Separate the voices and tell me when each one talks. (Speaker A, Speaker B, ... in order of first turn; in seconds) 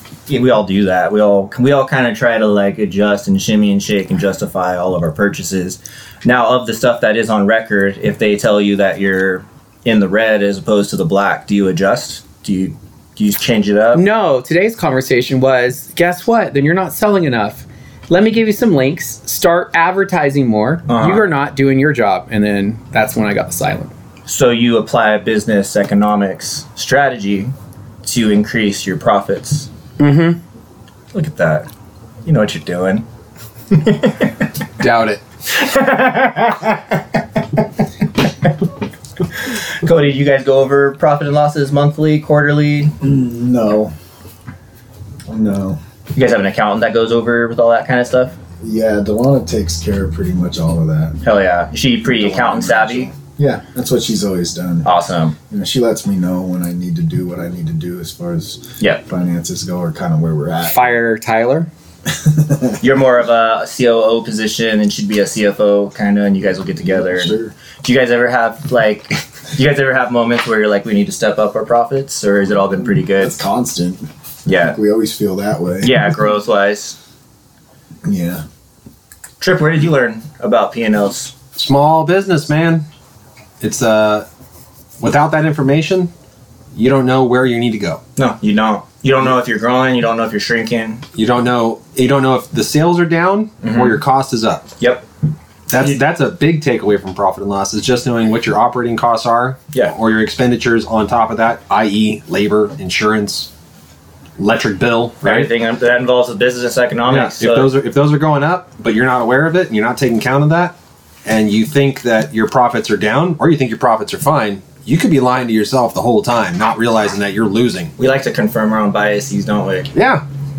Speaker A: 0.3-14.0, 20.9-21.3, 24.3-27.5, 28.0-29.7, 31.1-31.7, 32.2-33.1, 33.7-34.3, 35.5-37.0, 39.4-42.9, 46.1-48.4, 51.2-53.1, 54.9-55.4, 62.8-73.4, 74.5-74.8, 75.8-77.0, 79.4-81.3, 88.2-91.0, 93.6-94.0, 94.8-95.0, 105.2-107.7, 118.0-119.9
Speaker B: 13.9-23.9, 30.0-30.4, 34.8-35.2, 60.7-61.7
Speaker C: 43.0-43.9, 45.3-45.8, 48.6-51.2, 52.1-54.9, 55.5-61.0, 62.1-62.8, 66.8-67.5, 73.2-74.0, 74.5-76.2, 78.0-78.4
Speaker D: 81.5-82.9, 83.6-84.3, 85.0-86.1, 86.7-88.0, 91.2-94.7, 95.7-103.5, 104.4-105.5, 107.1-117.9, 119.9-120.2